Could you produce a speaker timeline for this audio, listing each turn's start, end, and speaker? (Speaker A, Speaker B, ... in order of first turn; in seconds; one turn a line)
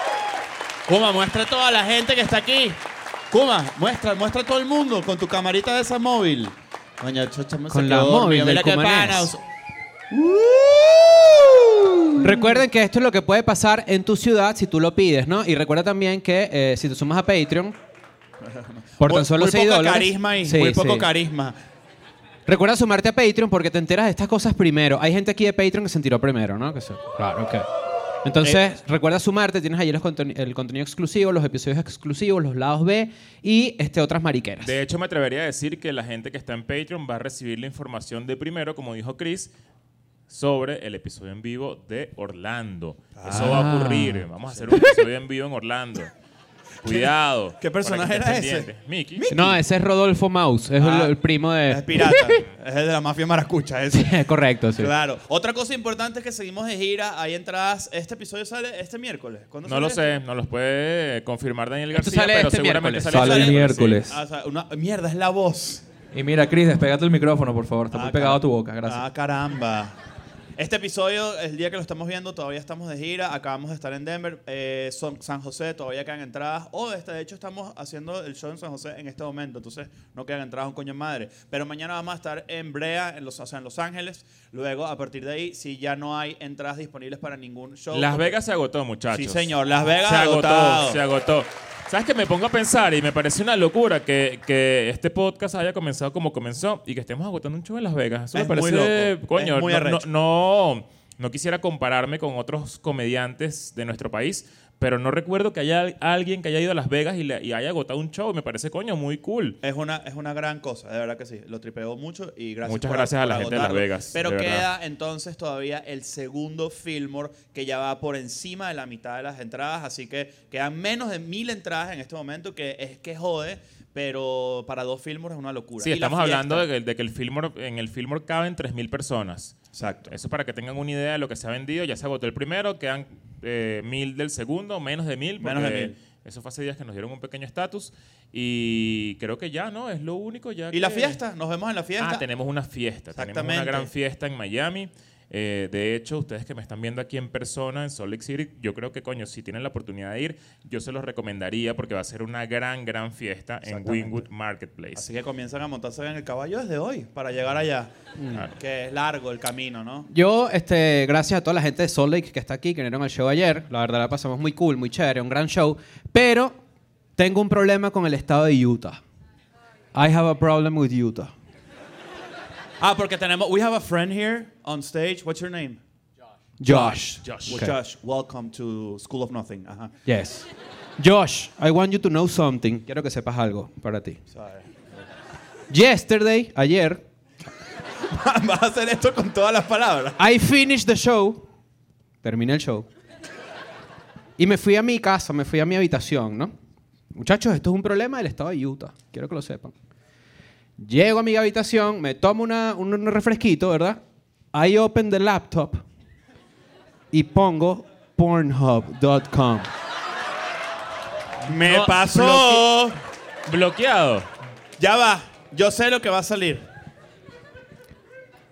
Speaker A: 0.9-2.8
Speaker A: 3.3-9.4
Speaker B: 7.7-9.3
Speaker A: 10.1-12.6
Speaker B: 12.2-17.8
Speaker A: 18.4-21.6
Speaker B: 19.0-21.1
Speaker B: 22.5-27.7
Speaker B: 28.2-34.7
Speaker A: 28.4-28.8
Speaker C: 34.6-39.5
Speaker C: 40.3-46.1
Speaker A: 43.2-43.7
Speaker B: 43.3-44.9
Speaker A: 44.5-44.8
Speaker C: 46.8-49.3
Speaker A: 46.8-49.6
Speaker B: 49.3-52.4
Speaker A: 50.8-54.2
Speaker B: 53.9-54.9
Speaker A: 54.8-60.2
Speaker C: 59.7-64.0
Speaker B: 61.9-63.1
Speaker A: 63.1-65.8
Speaker D: 63.1-64.2
Speaker D: 66.1-69.0
Speaker A: 67.9-70.0
Speaker A: 70.6-88.3
Speaker C: 87.9-109.6
Speaker A: 89.1-91.0
Speaker A: 98.3-100.0
Speaker A: 109.6-126.7
Speaker C: 112.7-114.7
Speaker C: 125.8-141.2
Speaker A: 129.7-130.1
Speaker A: 135.4-135.9
Speaker A: 140.7-142.2
Speaker C: 142.0-155.1
Speaker A: 143.2-143.9
Speaker A: 153.7-154.2
Speaker A: 155.0-157.9
Speaker B: 158.2-158.4
Speaker A: 158.5-160.1
Speaker B: 160.1-166.6
Speaker B: 167.2-169.0
Speaker B: 169.9-171.3
Speaker A: 172.8-175.8
Speaker B: 176.6-177.8
Speaker A: 176.7-179.9
Speaker C: 177.2-177.6
Speaker B: 180.1-180.5
Speaker B: 181.0-184.2
Speaker A: 184.3-184.7
Speaker B: 185.7-187.0
Speaker A: 188.0-190.2
Speaker B: 190.2-191.4
Speaker B: 192.2-192.9
Speaker B: 194.4-196.5
Speaker B: 197.1-199.7
Speaker B: 200.8-204.0
Speaker B: 204.5-205.8
Speaker B: 207.1-209.7
Speaker A: 211.5-213.0
Speaker C: 211.5-212.6
Speaker C: 213.5-214.3
Speaker A: 214.8-216.7